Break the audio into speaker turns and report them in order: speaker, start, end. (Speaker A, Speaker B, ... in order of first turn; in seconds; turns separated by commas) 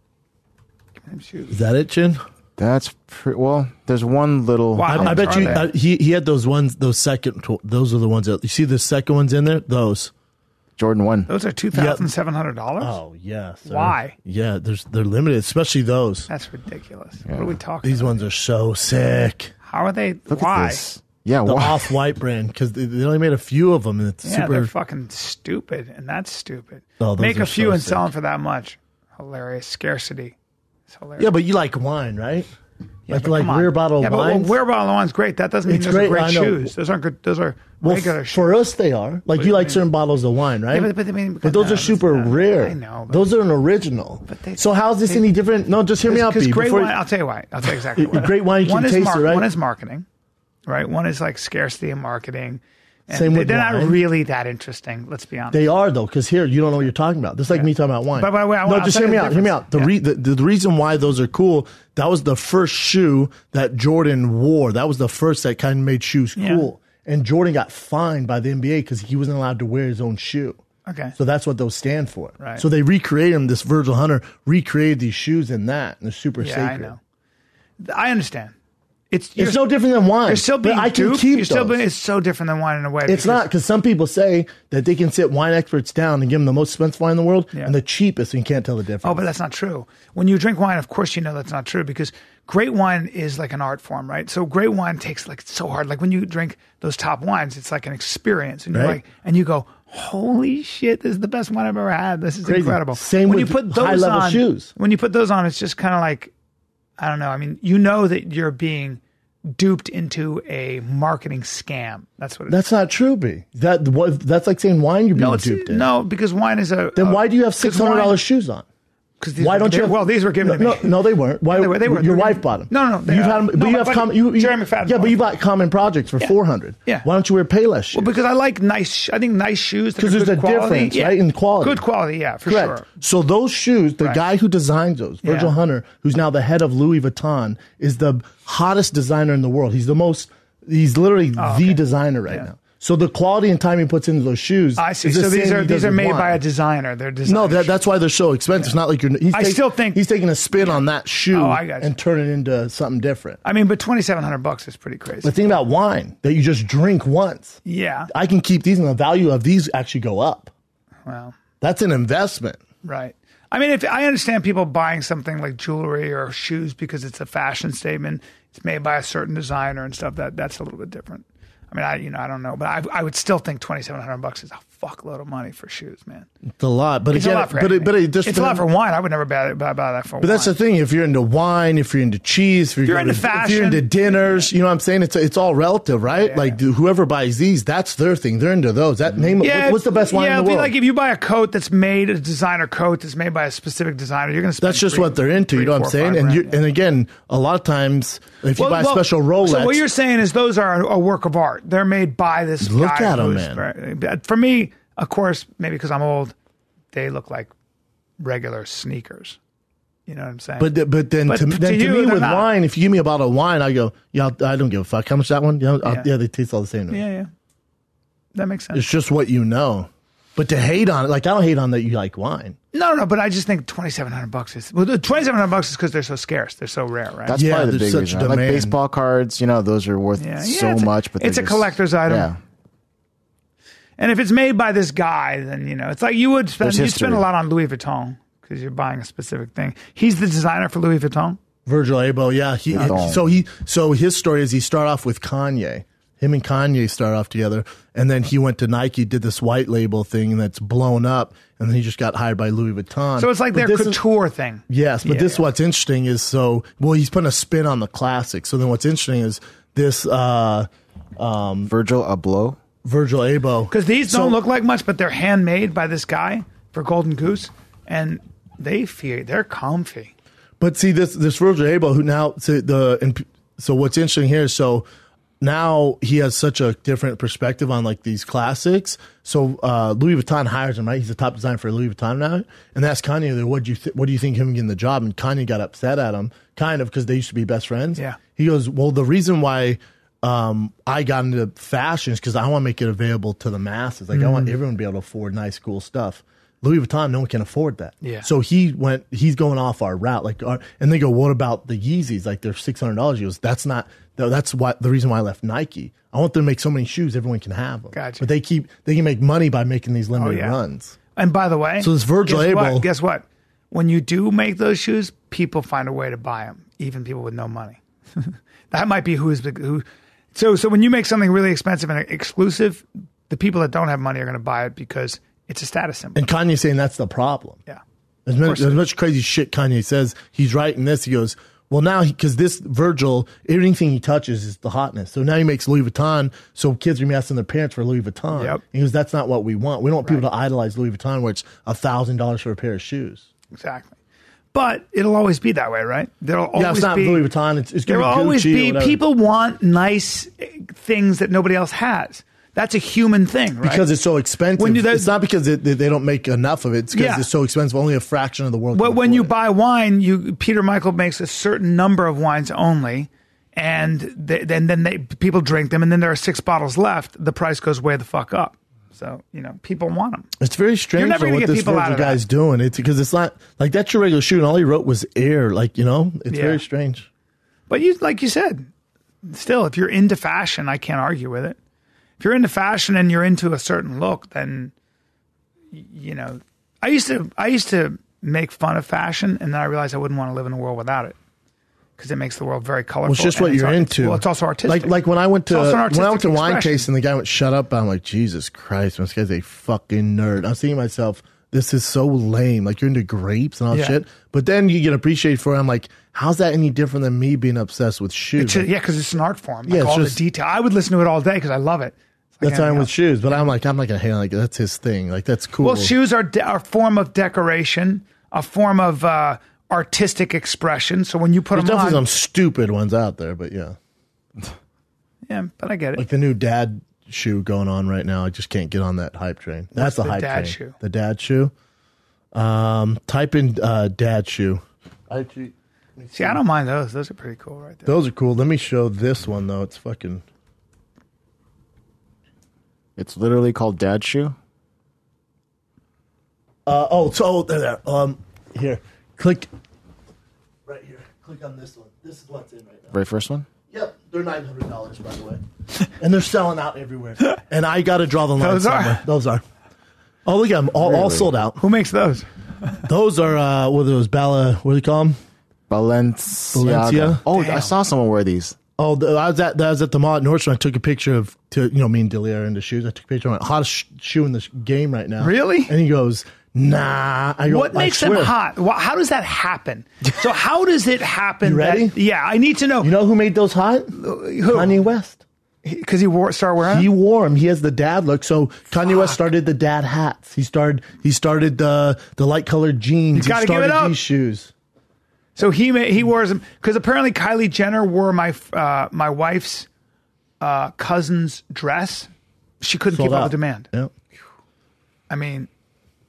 Speaker A: 1.1-1.6, Speaker B: 1.5-2.2, Speaker C: 2.6-5.7, Speaker A: 4.8-5.7, Speaker B: 4.9-10.1, Speaker C: 10.8-11.3, Speaker A: 11.3-13.0, Speaker B: 11.7-12.1, Speaker B: 12.8-16.3, Speaker A: 13.6-14.1, Speaker A: 16.3-18.2, Speaker C: 17.3-17.5, Speaker B: 17.8-19.5, Speaker A: 19.6-20.8, Speaker C: 20.3-21.9, Speaker B: 21.4-24.7, Speaker A: 24.2-30.3, Speaker B: 27.0-28.1, Speaker A: 30.9-31.3, Speaker B: 31.2-32.5, Speaker A: 33.1-38.5, Speaker B: 33.1-34.5, Speaker B: 35.6-36.7, Speaker B: 37.8-47.0, Speaker A: 39.3-39.8, Speaker A: 40.7-43.3, Speaker A: 44.3-45.2, Speaker A: 46.0-50.0, Speaker B: 47.7-49.5, Speaker A: 50.7-55.6, Speaker B: 53.1-54.0, Speaker B: 55.5-70.6, Speaker A: 57.5-59.9, Speaker A: 66.3-66.7, Speaker A: 70.8-71.1, Speaker B: 71.2-76.9, Speaker A: 72.4-72.6, Speaker A: 76.4-77.0, Speaker A: 77.8-78.5, Speaker A: 79.1-79.6, Speaker B: 79.4-81.8, Speaker A: 80.2-83.4, Speaker B: 83.1-89.3, Speaker A: 89.0-106.3, Speaker B: 98.7-99.0, Speaker B: 102.4-104.7, Speaker A: 107.0-112.6, Speaker B: 112.5-115.9, Speaker A: 115.1-118.2, Speaker B: 117.0-118.6, Speaker A: 119.2-125.2, Speaker B: 119.4-128.2, Speaker A: 127.9-132.9, Speaker B: 130.0-131.8, Speaker B: 132.4-146.4, Speaker A: 135.2-135.5, Speaker A: 141.4-142.5, Speaker A: 144.8-147.8, Speaker B: 147.2-153.4, Speaker A: 149.3-150.0, Speaker A: 150.6-151.9, Speaker A: 153.4-155.3, Speaker B: 155.2-160.5, Speaker A: 157.6-158.1, Speaker A: 161.1-161.3, Speaker B: 161.6-162.6, Speaker A: 162.8-176.3, Speaker B: 176.6-178.7, Speaker A: 177.1-180.6, Speaker B: 180.2-190.7, Speaker A: 182.8-184.5, Speaker A: 186.1-186.6, Speaker A: 189.4-196.6, Speaker B: 194.6-199.8, Speaker A: 198.5-206.3, Speaker B: 202.6-203.7, Speaker A: 206.9-207.5, Speaker A: 208.2-209.4, Speaker A: 210.1-210.7, Speaker B: 210.6-217.0, Speaker A: 211.2-212.5, Speaker A: 215.8-216.1, Speaker A: 216.9-217.3, Speaker A: 218.3-218.8, Speaker B: 218.7-222.6, Speaker A: 222.7-227.4, Speaker C: 227.2-232.4, Speaker B: 227.3-228.8, Speaker A: 230.2-232.3, Speaker A: 234.0-241.4, Speaker C: 236.6-237.3, Speaker B: 241.7-254.0, Speaker C: 242.7-243.2, Speaker A: 253.2-255.4, Speaker B: 254.7-260.7, Speaker B: 261.2-261.7, Speaker C: 261.7-262.6, Speaker B: 262.8-264.4, Speaker A: 263.7-270.1, Speaker B: 270.6-274.9, Speaker B: 275.4-310.9, Speaker A: 294.1-294.5, Speaker A: 298.0-298.3, Speaker A: 307.9-308.2, Speaker A: 310.1-310.6, Speaker A: 311.1-326.2, Speaker B: 311.8-312.9, Speaker B: 326.1-327.6, Speaker B: 328.2-343.2, Speaker A: 328.4-328.8, Speaker A: 338.3-338.6, Speaker A: 343.5-343.9, Speaker A: 344.5-347.2, Speaker B: 346.5-349.0, Speaker A: 347.9-353.8, Speaker B: 353.6-359.3, Speaker A: 354.6-355.1, Speaker A: 356.9-357.3, Speaker A: 358.7-370.3, Speaker B: 370.4-377.1, Speaker A: 370.9-372.2, Speaker A: 376.3-376.6, Speaker A: 377.7-378.7, Speaker A: 379.2-381.6, Speaker A: 382.2-384.7, Speaker A: 385.7-391.2, Speaker A: 392.0-394.9, Speaker B: 393.1-408.7, Speaker A: 395.4-396.9, Speaker A: 403.7-404.0, Speaker A: 408.4-413.5, Speaker B: 409.7-410.2, Speaker B: 412.4-415.9, Speaker A: 415.6-422.0, Speaker B: 421.5-423.8, Speaker A: 425.3-426.0, Speaker B: 425.9-431.5, Speaker A: 429.7-430.8, Speaker B: 432.3-436.4, Speaker A: 436.1-437.9, Speaker B: 437.9-440.2, Speaker C: 443.0-444.3, Speaker B: 446.6-449.5, Speaker B: 450.6-452.9, Speaker C: 452.9-453.5, Speaker B: 453.7-455.4, Speaker B: 455.9-459.4, Speaker A: 458.4-459.0, Speaker B: 460.2-461.6, Speaker C: 460.8-461.3, Speaker A: 461.6-462.8, Speaker B: 462.9-465.2, Speaker C: 465.7-468.6, Speaker B: 466.5-467.2, Speaker A: 467.3-467.7, Speaker B: 468.8-478.3, Speaker A: 475.2-475.7, Speaker A: 477.5-482.9, Speaker B: 481.4-482.0, Speaker B: 482.8-485.2, Speaker A: 483.9-484.8, Speaker A: 485.6-486.9, Speaker B: 486.6-494.5, Speaker A: 493.1-494.0, Speaker A: 495.4-499.7, Speaker A: 500.4-502.1, Speaker A: 502.6-503.7, Speaker B: 502.9-503.9, Speaker A: 505.1-505.5